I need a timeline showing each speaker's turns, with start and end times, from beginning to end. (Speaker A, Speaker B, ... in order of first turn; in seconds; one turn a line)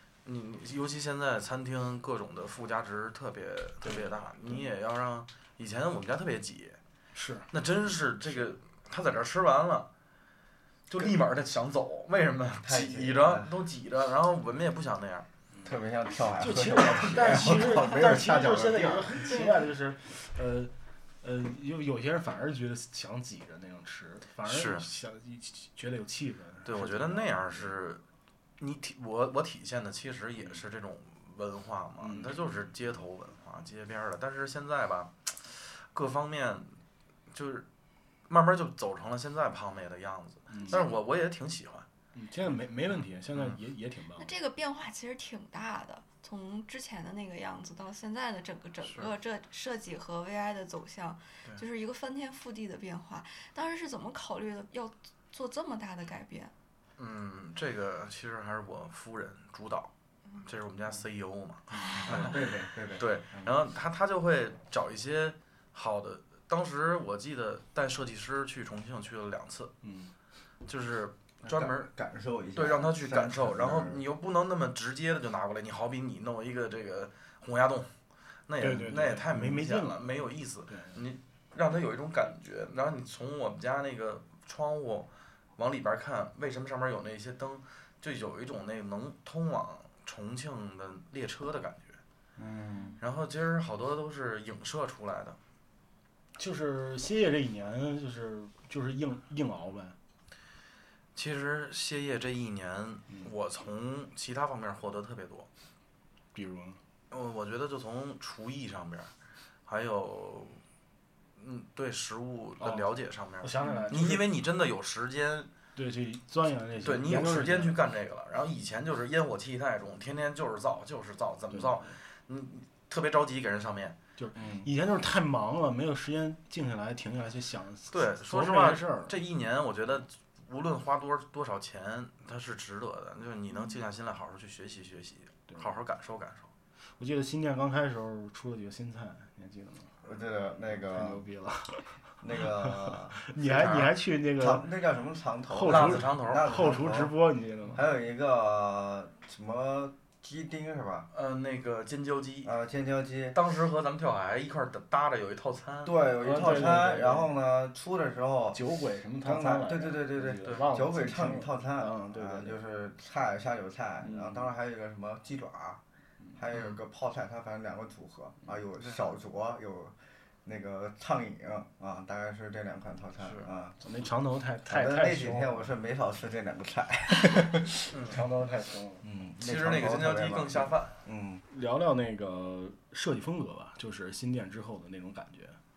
Speaker A: 0.2-6.8
Speaker B: 3.8-4.7
Speaker B: 7.1-7.5
Speaker A: 7.5-9.9
Speaker A: 10.9-15.3
Speaker C: 12.6-13.5
Speaker C: 15.6-19.5
Speaker B: 16.4-27.7
Speaker A: 24.4-24.9
Speaker A: 26.6-28.0
Speaker A: 28.6-36.8
Speaker B: 32.0-32.4
Speaker A: 37.3-37.7
Speaker A: 38.3-41.9
Speaker B: 40.5-40.8
Speaker D: 40.7-41.0
Speaker B: 42.1-44.3
Speaker D: 44.2-56.5
Speaker A: 48.8-49.1
Speaker A: 57.0-59.9
Speaker A: 60.4-69.7
Speaker B: 61.7-62.3
Speaker C: 62.0-63.5
Speaker B: 69.8-70.1
Speaker A: 70.7-71.9
Speaker C: 71.4-74.0
Speaker A: 72.5-77.9
Speaker A: 78.5-92.0
Speaker B: 78.6-81.0
Speaker C: 92.4-93.0
Speaker A: 93.0-95.4
Speaker B: 96.4-100.0
Speaker A: 101.2-105.5
Speaker B: 106.3-106.8
Speaker A: 107.1-109.1
Speaker A: 109.7-110.6
Speaker A: 111.4-115.5
Speaker B: 112.6-112.9
Speaker B: 113.4-114.3
Speaker D: 113.6-113.9
Speaker B: 115.8-117.8
Speaker A: 116.8-124.0
Speaker B: 121.5-122.0
Speaker B: 124.2-129.2
Speaker C: 124.3-124.7
Speaker A: 127.9-136.5
Speaker D: 133.5-133.8
Speaker B: 137.0-139.9
Speaker C: 140.0-141.2
Speaker B: 140.7-144.7
Speaker C: 142.2-143.2
Speaker A: 143.4-143.9
Speaker C: 144.4-147.2
Speaker B: 145.5-147.8
Speaker A: 145.7-146.5
Speaker C: 147.7-151.1
Speaker A: 151.1-152.5
Speaker C: 152.4-153.4
Speaker A: 153.3-156.0
Speaker C: 155.8-158.6
Speaker B: 156.2-157.3
Speaker B: 158.5-162.6
Speaker C: 159.2-165.8
Speaker B: 164.0-164.5
Speaker C: 166.4-173.8
Speaker A: 166.5-166.8
Speaker A: 173.2-173.5
Speaker B: 173.8-175.7
Speaker C: 174.7-178.1
Speaker A: 177.9-178.2
Speaker B: 178.0-179.1
Speaker C: 179.0-181.4
Speaker A: 179.4-181.0
Speaker B: 181.5-185.6